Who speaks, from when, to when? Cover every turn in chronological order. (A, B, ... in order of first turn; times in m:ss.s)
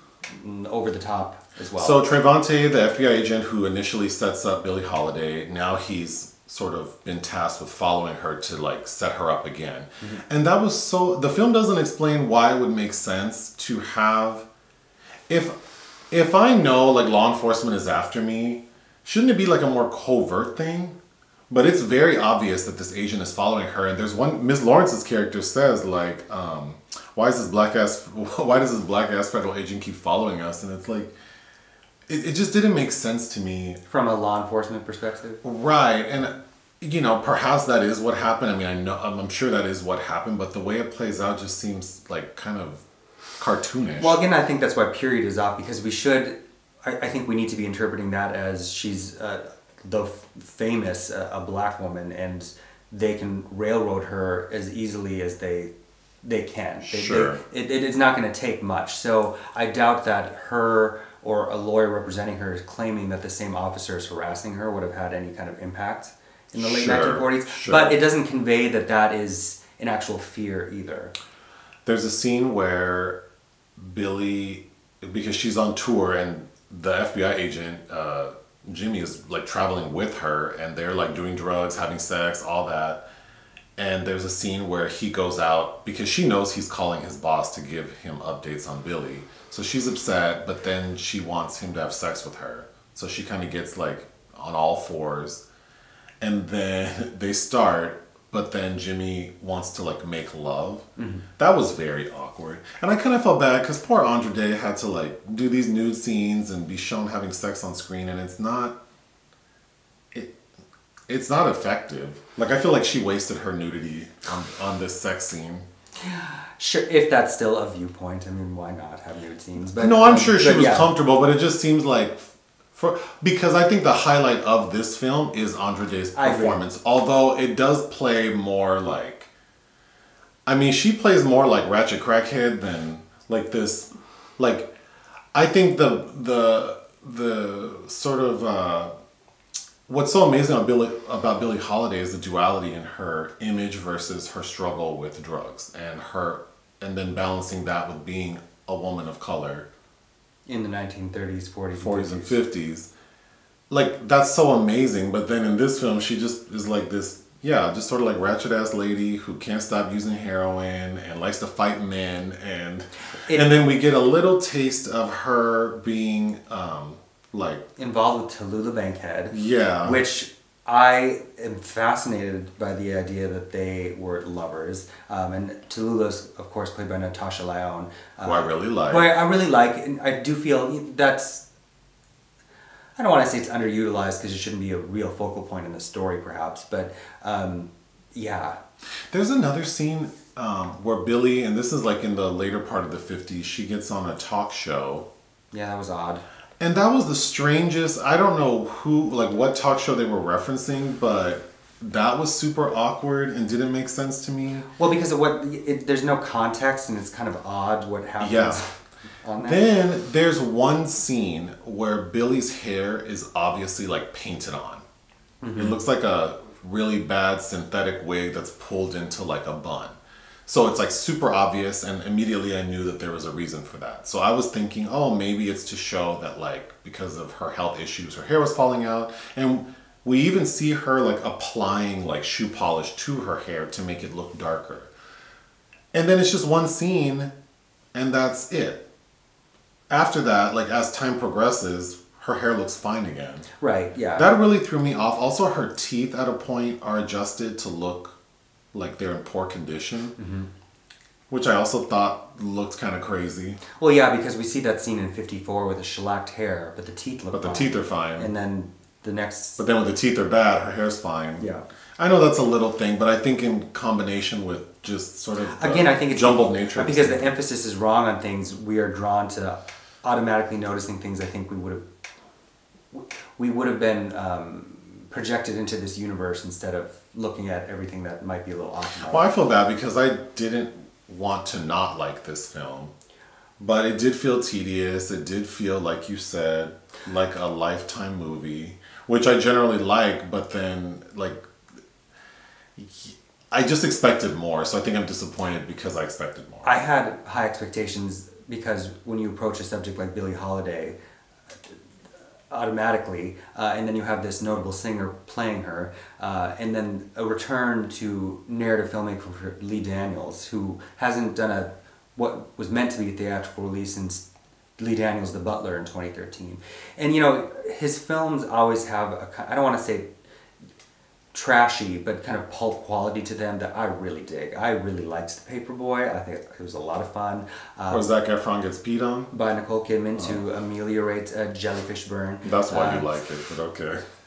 0:00.3-0:02.0 A
0:01.8-0:14.4 B
0:15.3-0:15.6 B
0:16.1-0:21.0 B
0:21.5-0:31.1 B
0:32.1-0:33.8 B
0:33.9-0:35.4 A
0:35.4-0:42.8 B
0:43.4-0:44.2 B
0:44.0-0:55.7 A
0:56.2-1:11.1 A
0:56.9-0:57.4 B
1:06.5-1:08.0 B
1:11.8-1:13.2 B
1:13.8-1:23.0 B
1:23.8-1:35.4 B
1:36.2-1:40.9 B
1:41.0-1:41.2 A
1:41.4-1:48.8 B
1:51.1-1:55.7 B
1:56.0-2:00.9 A
1:59.8-2:09.3 B
2:06.1-2:06.6 A
2:10.4-2:14.7 B
2:15.3-2:18.9 B
2:19.9-2:29.7 B
2:30.5-2:32.4 A
2:31.8-2:32.9 B
2:33.7-2:47.6 B
2:43.2-2:43.5 A
2:47.8-3:01.4 A
2:49.3-2:50.0 B
2:58.2-2:59.1 B
3:03.0-3:08.6 A
3:09.1-3:15.1 B
3:15.5-3:16.2 A
3:16.6-3:24.7 B
3:24.8-3:29.6 A
3:28.2-3:28.6 B
3:29.4-3:34.8 B
3:35.4-3:35.8 A
3:35.6-3:54.9 B
3:55.9-3:57.3 B
3:57.9-3:58.8 B
3:59.9-4:03.4 B
4:03.6-4:04.3 A
4:04.2-4:08.2 B
4:08.7-4:10.2 B
4:10.2-4:10.5 A
4:11.3-4:13.6 B
4:13.8-4:19.6 A
4:17.3-4:18.3 B
4:19.6-4:27.3 B
4:21.4-4:21.6 A
4:25.5-4:31.8 A
4:32.9-4:39.3 A
4:39.0-4:42.9 B
4:43.6-4:51.4 B
4:52.8-4:56.8 B
4:56.6-5:01.0 A
5:02.5-5:14.2 A
5:14.8-5:20.1 A
5:21.3-5:28.0 A
5:27.9-5:29.3 B
5:29.3-5:33.1 A
5:32.4-5:34.0 B